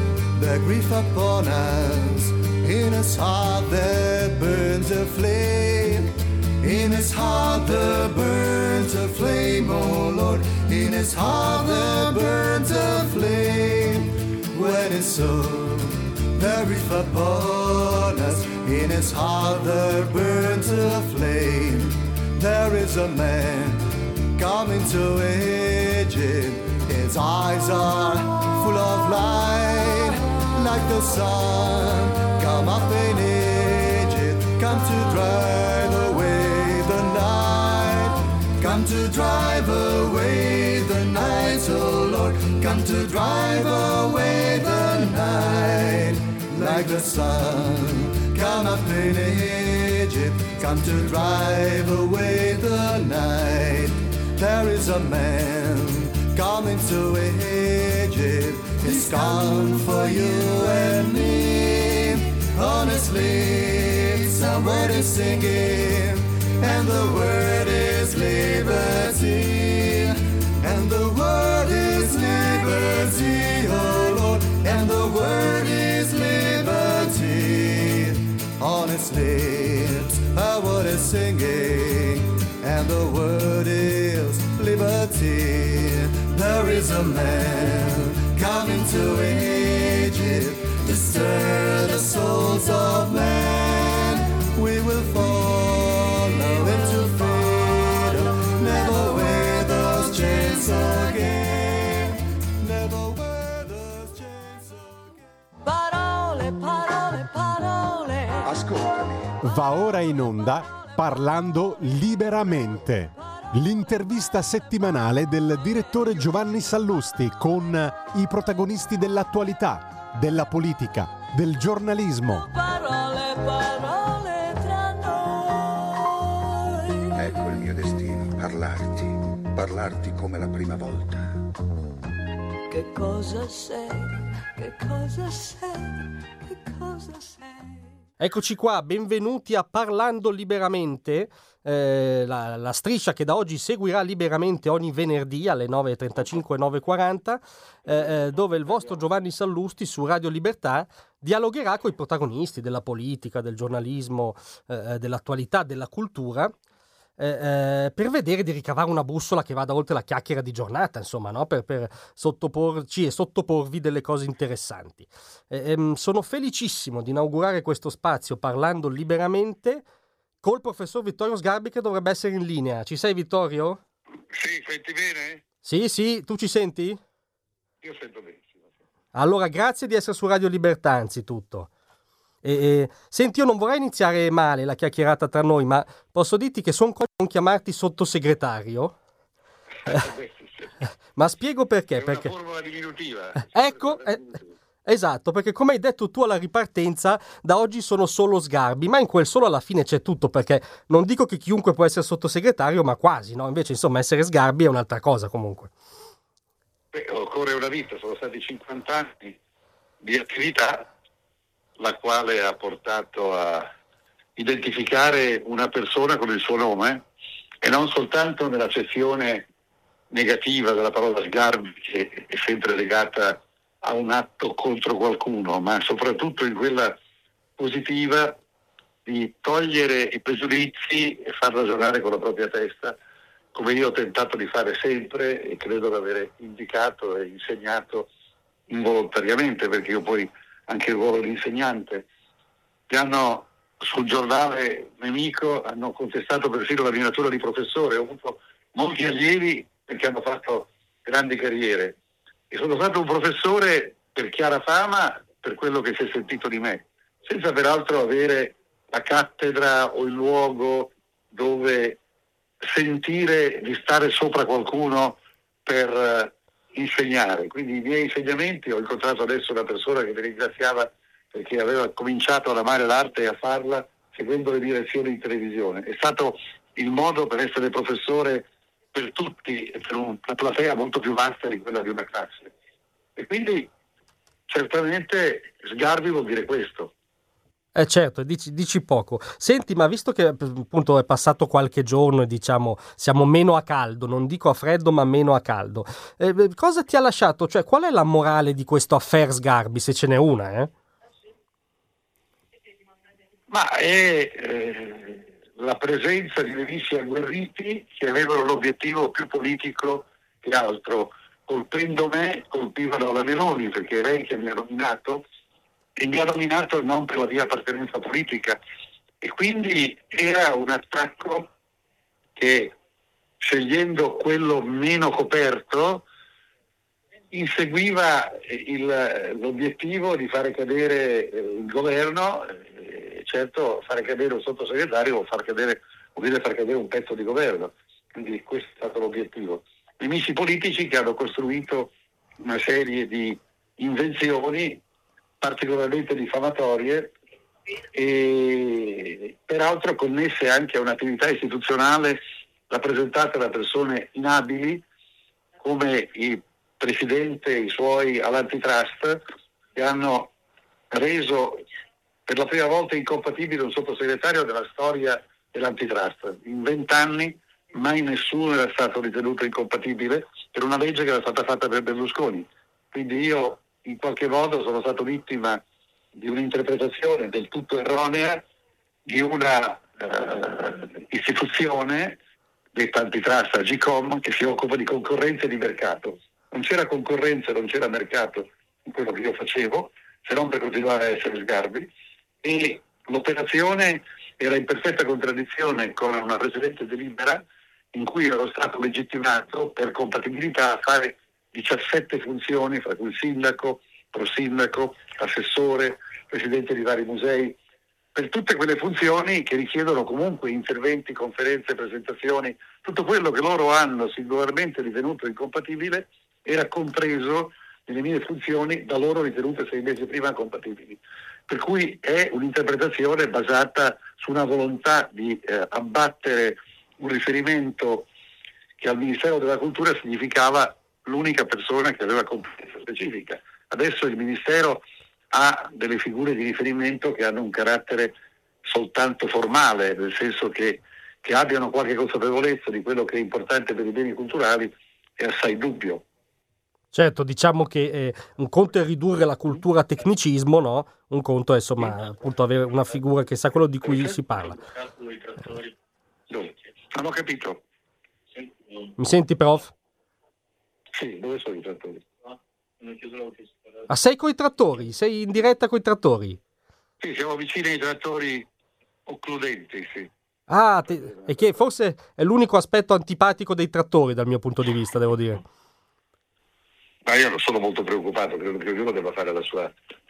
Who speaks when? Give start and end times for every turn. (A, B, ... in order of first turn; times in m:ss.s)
0:00.3-1:45.2 A
1:45.6-1:48.5 B
1:48.4-1:49.3 C
1:49.4-2:02.5 D
2:02.5-2:07.1 B
2:07.2-2:11.5 C
2:12.7-2:17.9 B
2:18.2-2:36.5 E
2:37.2-2:49.8 E
2:50.4-2:53.8 E
2:54.3-2:55.4 F
2:55.6-2:57.0 E
2:57.8-2:58.6 F
2:59.1-3:01.7 E
3:02.4-3:09.0 E
3:09.8-3:10.7 F
3:11.2-3:12.3 E
3:12.0-3:14.4 F
3:13.5-3:14.4 E
3:14.9-3:25.7 E
3:26.9-3:29.4 F
3:30.0-3:30.9 F
3:31.8-3:33.7 F
3:34.4-3:37.0 F
3:37.6-3:39.5 F
3:40.1-3:47.0 F
3:47.6-3:48.4 F
3:49.1-3:53.0 F
3:53.6-3:58.1 F
3:58.7-4:02.0 F
4:02.9-4:12.0 F
4:12.5-4:22.0 F
4:22.6-4:42.5 F
4:43.2-4:43.7 F
4:44.5-4:46.9 F
4:47.8-5:00.7 E
5:03.5-5:15.2 F
5:16.0-5:18.6 F
5:19.2-5:21.5 F
5:22.4-5:22.7 F
5:23.4-5:26.0 F
5:27.3-5:41.9 F
5:42.4-5:44.8 F
5:45.4-5:47.1 F
5:47.9-5:54.8 F
5:55.6-5:59.2 F
5:59.8-6:00.3 F
6:00.9-6:01.6 F
6:02.3-6:15.6 F
6:16.2-6:18.4 F
6:19.1-6:22.2 F
6:22.8-6:31.9 F
6:32.4-6:37.4 F
6:37.9-6:47.6 F
6:48.2-7:08.1 F
7:08.8-7:18.1 F
7:18.6-7:26.0 F
7:26.9-7:34.6 E
7:36.3-7:37.6 F
7:39.0-7:39.7 E
7:40.9-7:42.0 F
7:43.9-7:46.4 E
7:47.0-7:48.5 F
7:49.1-7:50.1 F
7:50.5-7:55.4 E
7:57.1-7:59.7 F